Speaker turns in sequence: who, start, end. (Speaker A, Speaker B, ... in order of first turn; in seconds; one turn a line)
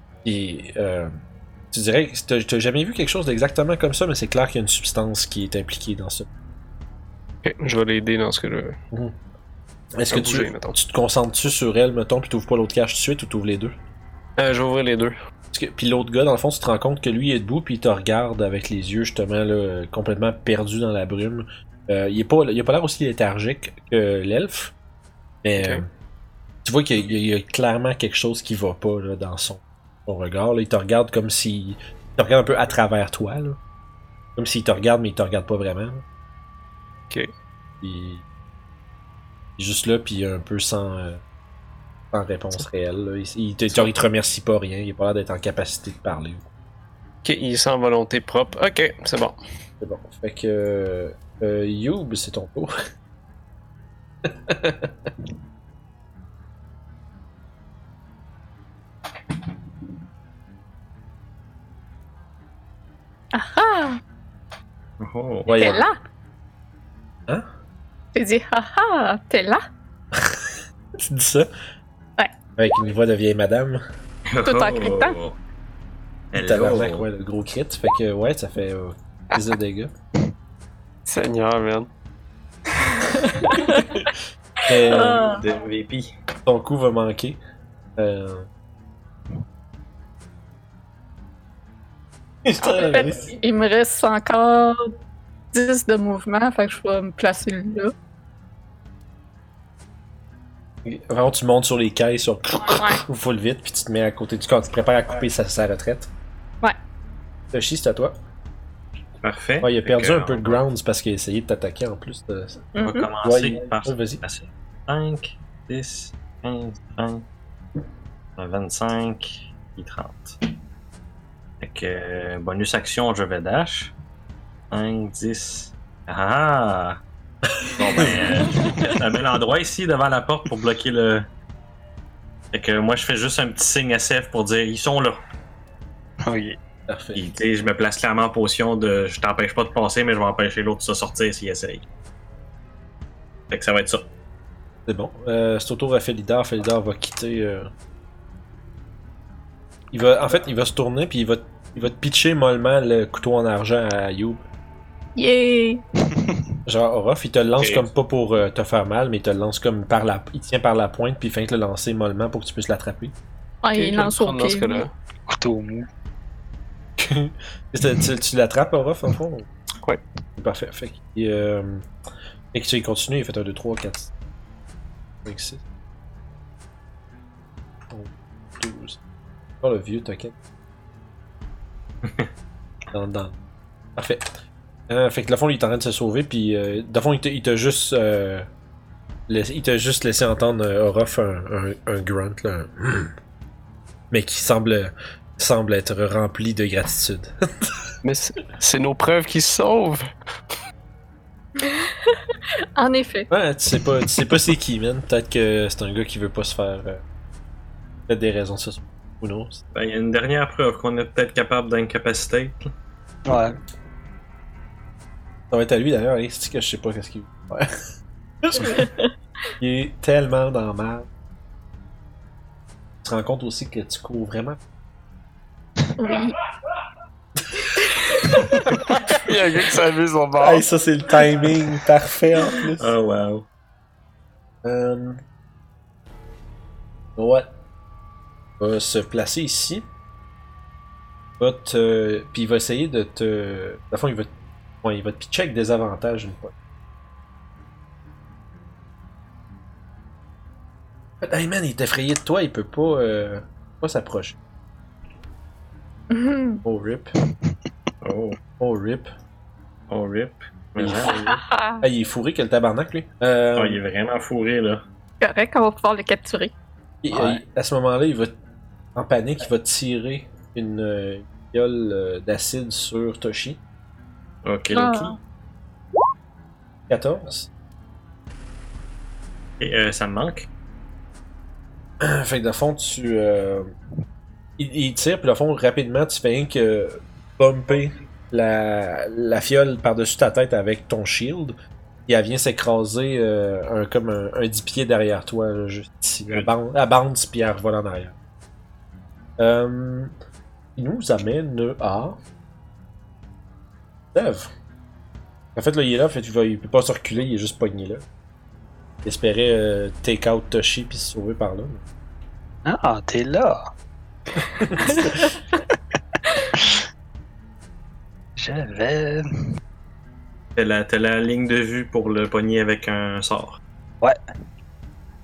Speaker A: 0.2-1.1
Speaker A: 1.7-6.3
Speaker B: 7.4-8.8
Speaker A: 10.0-13.8
Speaker B: 10.1-10.8
Speaker B: 14.4-15.2
Speaker A: 15.5-24.7
Speaker A: 25.4-25.9
Speaker B: 25.6-25.8
Speaker A: 26.6-33.6
Speaker A: 34.4-36.0
Speaker A: 37.8-38.2
Speaker A: 39.6-41.2
Speaker A: 42.1-46.5
Speaker B: 47.2-49.4
Speaker A: 49.8-52.7
Speaker A: 54.2-55.1
Speaker C: 63.3-64.0
Speaker D: 65.0-65.7
Speaker A: 65.5-65.9
Speaker C: 65.5-66.0
Speaker C: 68.1-69.6
Speaker A: 70.1-71.5
Speaker A: 72.6-73.8
Speaker D: 74.3-75.4
Speaker C: 74.5-75.2
Speaker D: 76.3-77.1
Speaker A: 76.3-79.9
Speaker B: 81.1-81.9
Speaker C: 83.1-83.9
Speaker A: 83.6-84.1
Speaker A: 84.7-85.4
Speaker C: 84.9-85.4
Speaker D: 85.2-86.1
Speaker A: 86.5-87.4
Speaker A: 88.0-88.5
Speaker A: 92.5-93.3
Speaker C: 92.6-94.9
Speaker C: 95.5-97.9
Speaker A: 100.8-106.1
Speaker C: 102.6-103.0
Speaker A: 107.5-108.1
Speaker D: 109.2-110.6
Speaker A: 109.6-112.7
Speaker C: 112.8-113.1
Speaker D: 112.8-117.2
Speaker A: 113.2-114.2
Speaker D: 118.4-120.4
Speaker D: 121.6-123.9
Speaker D: 124.7-127.0
Speaker A: 127.6-128.2
Speaker D: 127.8-131.3
Speaker D: 132.5-135.2
Speaker E: 136.2-136.6
Speaker A: 136.9-137.3
Speaker D: 137.1-141.8
Speaker D: 143.5-144.1
Speaker A: 144.9-147.7
Speaker A: 149.9-154.4
Speaker C: 155.2-155.8
Speaker A: 156.7-163.2
Speaker D: 157.6-157.8
Speaker C: 163.6-164.8
Speaker B: 163.7-164.9
Speaker E: 165.3-165.9
Speaker A: 167.0-169.5
Speaker A: 170.4-171.9
Speaker A: 172.5-174.1
Speaker A: 175.2-175.6
Speaker A: 177.9-179.0
Speaker A: 179.6-180.3
Speaker D: 182.0-182.3
Speaker A: 182.9-183.4
Speaker A: 184.0-184.4
Speaker A: 184.9-188.5
Speaker A: 189.3-193.1
Speaker A: 194.1-197.3
Speaker B: 198.0-200.1
Speaker C: 201.6-202.2
Speaker C: 202.8-203.3
Speaker A: 203.3-207.0
Speaker A: 208.1-209.6
Speaker D: 209.7-212.7
Speaker E: 213.3-213.6
Speaker A: 215.5-217.7
Speaker A: 218.4-218.9
Speaker A: 219.6-221.1
Speaker A: 223.0-224.6
Speaker C: 226.0-226.4
Speaker B: 228.9-229.7
Speaker E: 229.2-230.6
Speaker A: 230.4-232.9
Speaker D: 232.8-233.5
Speaker A: 234.6-235.2
Speaker A: 237.2-237.5
Speaker A: 238.6-239.8
Speaker A: 241.4-244.3
Speaker A: 244.8-246.5
Speaker A: 251.2-254.4
Speaker C: 256.1-256.6
Speaker A: 256.6-257.1
Speaker D: 258.0-258.4
Speaker A: 258.6-259.1
Speaker D: 259.9-261.4
Speaker A: 260.8-263.8
Speaker C: 261.1-261.8
Speaker D: 263.6-264.9
Speaker C: 265.2-266.5
Speaker A: 267.0-268.3
Speaker E: 267.1-267.4
Speaker A: 268.9-273.6
Speaker D: 274.4-275.2
Speaker C: 274.7-275.2
Speaker A: 276.9-277.5
Speaker D: 279.6-280.5
Speaker A: 282.0-283.7
Speaker A: 284.6-291.6
Speaker A: 292.1-298.1
Speaker A: 299.4-300.1
Speaker A: 300.8-302.2
Speaker A: 304.1-304.5
Speaker A: 305.6-308.0
Speaker A: 309.1-311.8
Speaker E: 312.6-313.7
Speaker A: 314.5-315.3
Speaker E: 318.4-319.4
Speaker D: 320.6-323.6